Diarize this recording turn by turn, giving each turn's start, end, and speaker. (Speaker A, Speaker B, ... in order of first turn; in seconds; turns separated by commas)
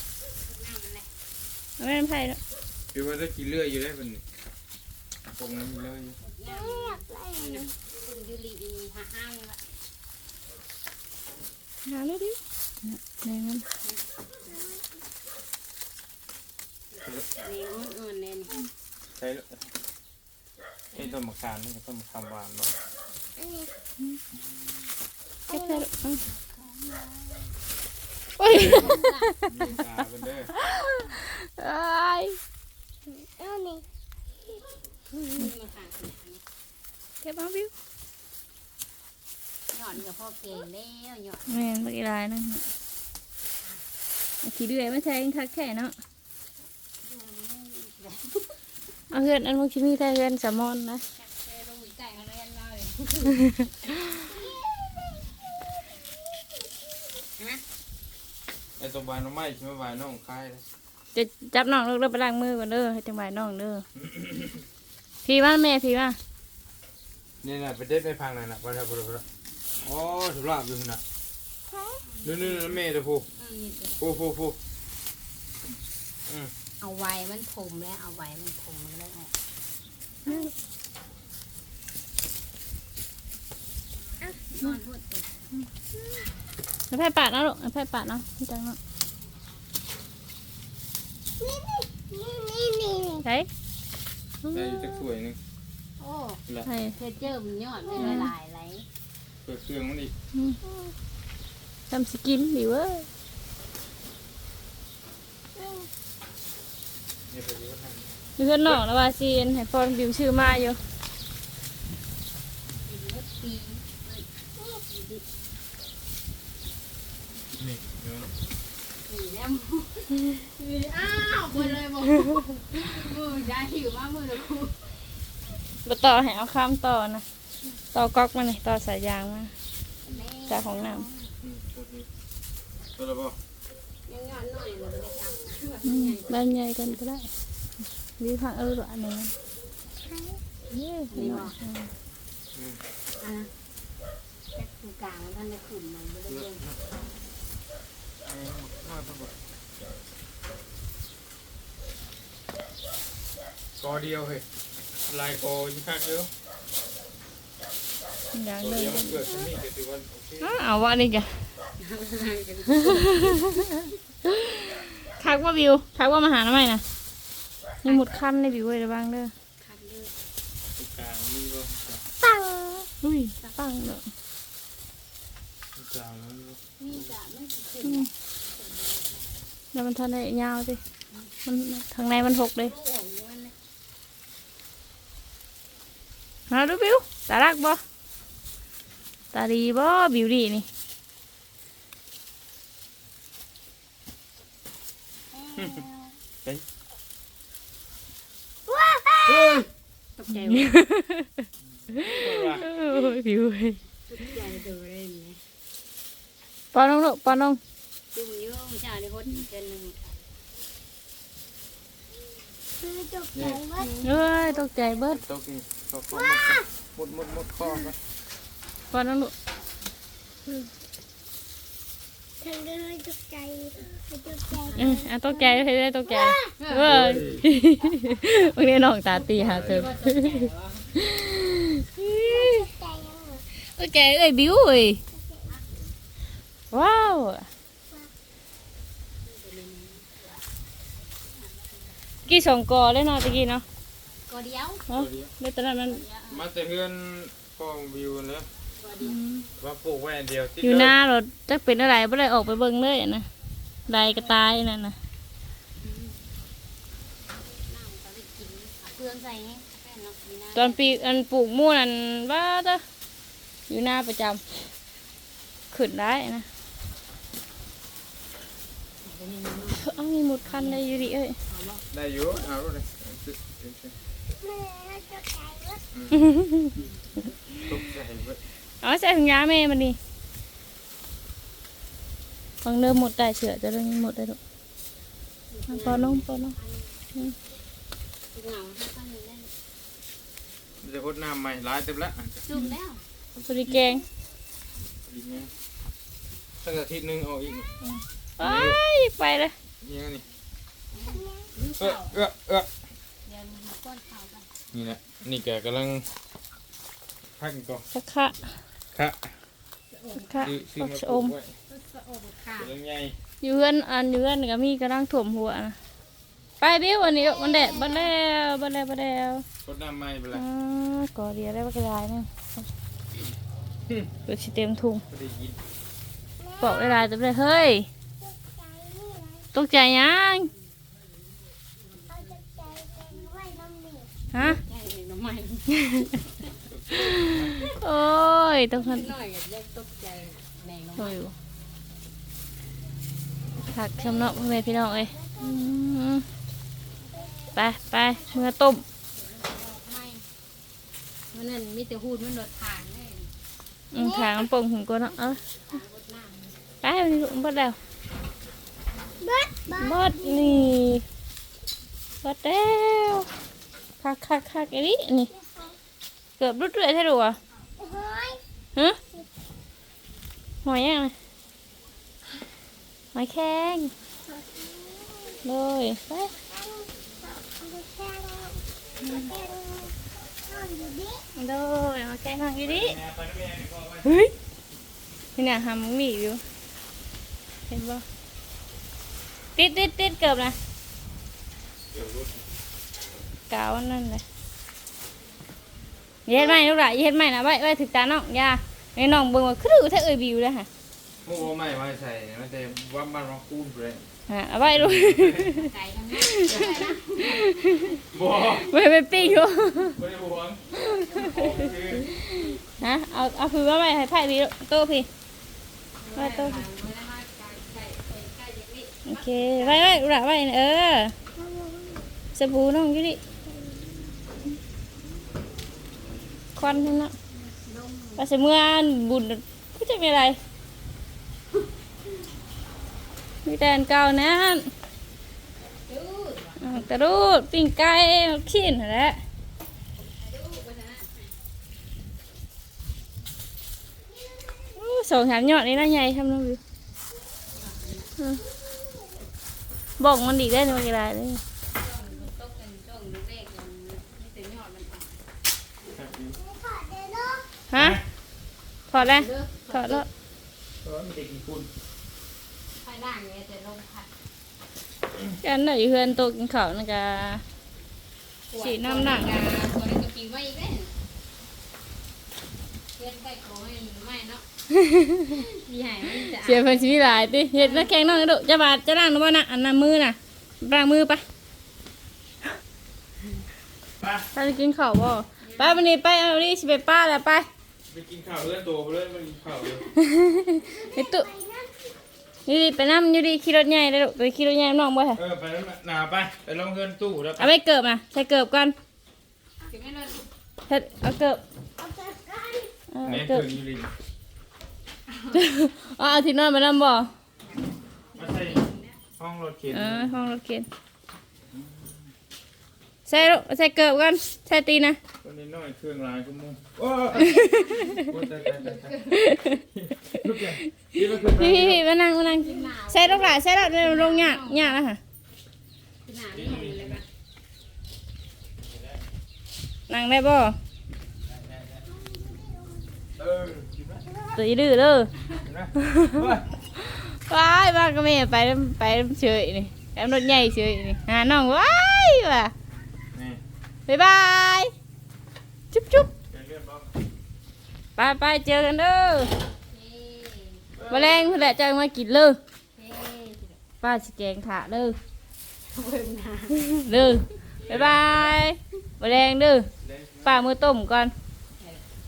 Speaker A: 0.3-1.1, Speaker B: 1.8-2.4, Speaker C: 2.9-4.2, Speaker C: 5.3-6.2, Speaker A: 6.2-9.6, Speaker D: 6.7-7.6, Speaker B: 11.8-13.6, Speaker C: 17.0-17.3, Speaker A: 17.4-18.7, Speaker C: 19.2-19.6, Speaker C: 20.9-22.7, Speaker B: 25.5-26.2, Speaker A: 26.3-27.0, Speaker B: 28.4-29.8, Speaker A: 28.5-29.3, Speaker C: 28.5-30.5, Speaker B: 30.5-32.4, Speaker D: 33.4-33.8, Speaker A: 35.1-36.4, Speaker B: 37.2-37.7, Speaker A: 39.7-41.7, Speaker B: 41.5-42.6, Speaker B: 44.4-45.9, Speaker A: 47.0-48.6, Speaker B: 49.1-51.0, Speaker A: 51.2-54.6, Speaker C: 58.8-60.6, Speaker B: 61.1-63.8, Speaker C: 64.0-64.6, Speaker B: 65.2-66.2, Speaker C: 67.4-69.2, Speaker C: 69.8-71.0, Speaker A: 72.1-72.6, Speaker C: 72.2-73.3, Speaker A: 73.4-74.0, Speaker C: 74.0-74.6, Speaker C: 76.2-76.5, Speaker A: 76.8-79.3, Speaker B: 80.2-80.5, Speaker A: 84.2-85.3, Speaker B: 86.9-88.8, Speaker D: 91.4-93.2, Speaker B: 93.2-93.5, Speaker B: 94.4-94.9, Speaker C: 94.5-95.4, Speaker A: 96.0-96.4, Speaker B: 96.6-96.9, Speaker A: 96.9-98.8, Speaker B: 97.9-98.3, Speaker C: 99.4-100.1, Speaker B: 101.9-103.1, Speaker C: 107.3-108.1, Speaker B: 108.4-110.8, Speaker A: 112.8-115.2, Speaker C: 117.5-118.3, Speaker A: 119.0-125.0, Speaker B: 125.8-127.2, Speaker B: 127.9-129.5, Speaker A: 130.1-131.3, Speaker B: 130.5-131.1, Speaker C: 131.4-132.1, Speaker C: 132.9-133.4, Speaker A: 134.1-136.4, Speaker B: 135.8-137.3, Speaker B: 138.2-139.3, Speaker B: 140.7-141.9, Speaker A: 141.1-141.6, Speaker C: 142.5-142.8, Speaker A: 143.2-143.5, Speaker A: 144.5-146.6, Speaker C: 146.3-146.8, Speaker C: 148.2-149.3, Speaker C: 153.8-154.4, Speaker C: 155.0-156.3, Speaker B: 158.3-159.3, Speaker C: 158.6-160.5, Speaker B: 160.4-161.4, Speaker A: 161.8-163.6, Speaker B: 162.9-166.8, Speaker B: 167.8-169.3, Speaker A: 167.8-168.3, Speaker A: 169.6-170.1, Speaker C: 170.8-172.0, Speaker B: 173.0-174.1, Speaker C: 175.8-177.1, Speaker A: 176.8-179.3, Speaker B: 177.8-178.1, Speaker B: 179.7-180.8, Speaker B: 181.4-182.7, Speaker A: 182.5-183.5, Speaker B: 186.5-187.8, Speaker B: 189.3-190.7, Speaker C: 195.5-195.9, Speaker D: 198.7-199.4, Speaker C: 199.2-199.7, Speaker A: 200.2-200.8, Speaker B: 200.5-203.8, Speaker C: 201.9-202.7, Speaker A: 204.1-205.4, Speaker B: 206.7-207.6, Speaker A: 208.1-210.2, Speaker D: 212.8-213.9, Speaker C: 213.3-213.7, Speaker A: 213.8-214.1, Speaker B: 214.0-215.2, Speaker C: 215.1-218.0, Speaker B: 218.9-219.3, Speaker D: 222.4-224.7, Speaker A: 224.6-225.1, Speaker B: 224.8-232.7, Speaker A: 226.6-227.1, Speaker C: 226.8-227.5, Speaker A: 229.1-230.9, Speaker C: 229.4-229.8, Speaker D: 232.4-233.4, Speaker B: 233.6-235.0, Speaker B: 236.7-237.5, Speaker A: 239.2-240.4, Speaker A: 241.2-241.8, Speaker B: 242.2-243.6, Speaker A: 244.3-244.8, Speaker B: 244.9-246.0, Speaker C: 244.9-245.3, Speaker A: 245.9-246.4, Speaker C: 246.3-248.5, Speaker A: 248.8-249.2, Speaker B: 249.0-249.5, Speaker C: 249.6-250.9, Speaker B: 250.6-253.3, Speaker B: 253.9-254.9, Speaker A: 255.8-256.1, Speaker A: 257.5-261.1, Speaker B: 260.5-262.8, Speaker B: 263.7-264.4, Speaker B: 265.7-266.4, Speaker A: 269.0-271.8, Speaker B: 269.7-271.4, Speaker C: 271.9-273.9, Speaker D: 274.4-275.8, Speaker C: 275.9-276.3, Speaker B: 276.1-276.8, Speaker B: 277.5-277.7, Speaker C: 277.6-278.4, Speaker B: 278.8-280.0, Speaker B: 282.6-284.4, Speaker A: 285.5-286.9, Speaker B: 285.7-286.5, Speaker A: 288.3-289.5, Speaker C: 290.8-292.4, Speaker A: 292.5-293.0, Speaker C: 293.4-293.9, Speaker B: 293.5-294.0, Speaker C: 295.0-295.5, Speaker C: 296.6-297.7, Speaker B: 297.9-299.5, Speaker C: 298.4-298.8, Speaker C: 299.8-300.2, Speaker A: 300.9-302.1, Speaker C: 301.8-302.7, Speaker A: 303.2-304.5, Speaker C: 304.7-306.1, Speaker C: 307.4-307.9, Speaker B: 307.9-308.5, Speaker C: 308.9-309.4, Speaker A: 310.0-310.5, Speaker B: 310.2-311.3, Speaker C: 310.4-311.5, Speaker A: 311.7-312.7, Speaker C: 312.6-313.1, Speaker B: 313.4-315.8, Speaker B: 316.6-319.4, Speaker C: 319.6-320.4, Speaker B: 320.3-322.3, Speaker B: 324.2-325.0, Speaker C: 325.1-325.6, Speaker B: 326.6-327.9, Speaker D: 328.6-329.4, Speaker B: 329.5-330.5, Speaker A: 332.0-333.2, Speaker D: 332.8-334.1, Speaker B: 334.3-334.6, Speaker A: 334.4-336.1, Speaker B: 335.7-336.1, Speaker C: 336.7-337.6, Speaker B: 336.9-339.1, Speaker A: 338.7-341.2, Speaker B: 341.0-341.3, Speaker B: 343.7-346.2, Speaker B: 347.5-348.8, Speaker A: 349.1-350.3, Speaker A: 351.3-353.3, Speaker B: 353.9-355.4, Speaker A: 355.3-356.6, Speaker B: 356.8-357.8, Speaker D: 359.2-360.7, Speaker B: 359.8-361.0, Speaker B: 362.2-363.3, Speaker B: 364.0-365.3, Speaker B: 366.4-367.4, Speaker D: 367.8-368.4, Speaker B: 370.6-371.1, Speaker B: 373.1-373.9, Speaker D: 374.5-375.4, Speaker B: 375.4-376.3, Speaker D: 376.6-379.9, Speaker B: 379.1-379.4, Speaker D: 380.4-381.2, Speaker B: 381.3-383.0, Speaker C: 382.6-384.2, Speaker B: 384.0-384.3, Speaker B: 385.4-386.4, Speaker B: 387.7-388.0, Speaker B: 389.6-390.6, Speaker C: 391.9-392.4, Speaker B: 393.5-394.2, Speaker B: 396.3-400.7, Speaker C: 401.2-404.0, Speaker B: 404.3-410.0, Speaker C: 404.7-405.6, Speaker A: 405.5-408.0, Speaker C: 408.0-412.1, Speaker B: 410.7-415.1, Speaker A: 416.0-420.0, Speaker B: 416.1-416.6, Speaker B: 419.0-421.1, Speaker D: 421.4-422.0, Speaker B: 422.3-423.2, Speaker B: 426.6-427.1, Speaker A: 427.3-428.3, Speaker B: 428.2-430.4, Speaker B: 433.4-434.7, Speaker A: 435.9-436.8, Speaker B: 436.6-439.2, Speaker A: 440.1-441.3, Speaker B: 444.7-446.6, Speaker A: 447.5-448.1, Speaker B: 450.0-451.4, Speaker A: 451.7-455.2, Speaker C: 455.9-456.4, Speaker D: 456.4-457.4, Speaker B: 457.7-458.0, Speaker C: 457.8-458.0, Speaker B: 458.9-460.1, Speaker A: 458.9-460.1, Speaker C: 460.8-461.7, Speaker A: 462.8-464.1, Speaker B: 465.4-467.4, Speaker A: 468.5-470.9, Speaker B: 468.6-469.4, Speaker A: 472.9-474.4, Speaker B: 474.9-475.3, Speaker A: 475.2-478.0, Speaker B: 476.3-481.2, Speaker C: 484.0-484.2, Speaker B: 484.3-487.5, Speaker A: 485.4-485.9, Speaker C: 487.9-489.9, Speaker B: 489.9-491.3, Speaker D: 490.7-491.7, Speaker B: 492.4-495.2, Speaker C: 495.1-497.5, Speaker B: 497.4-498.7, Speaker A: 499.6-500.3, Speaker B: 500.7-501.4, Speaker D: 501.8-502.7, Speaker B: 502.9-503.5, Speaker C: 503.0-503.9, Speaker A: 505.1-505.4, Speaker B: 505.3-507.1, Speaker C: 508.1-508.7, Speaker C: 509.2-510.2, Speaker B: 509.7-510.7, Speaker C: 511.5-512.0, Speaker B: 513.1-515.0, Speaker C: 515.2-521.8, Speaker B: 517.1-518.2, Speaker A: 517.3-519.2, Speaker B: 519.1-525.0, Speaker A: 522.3-524.8, Speaker A: 526.0-527.0, Speaker C: 526.3-527.0, Speaker B: 529.9-530.6, Speaker C: 533.2-534.0, Speaker B: 534.3-535.1, Speaker C: 535.4-536.5, Speaker B: 535.8-542.5, Speaker C: 543.1-543.4, Speaker B: 543.9-544.7, Speaker B: 545.7-546.1, Speaker C: 546.3-546.9, Speaker B: 548.0-549.3, Speaker A: 549.5-550.7, Speaker C: 550.8-551.3, Speaker B: 550.9-552.4, Speaker A: 552.7-553.6, Speaker B: 553.8-555.0, Speaker A: 555.7-556.8, Speaker B: 556.6-559.7, Speaker C: 557.6-558.4, Speaker C: 559.8-560.5, Speaker B: 560.2-561.1, Speaker A: 561.6-561.8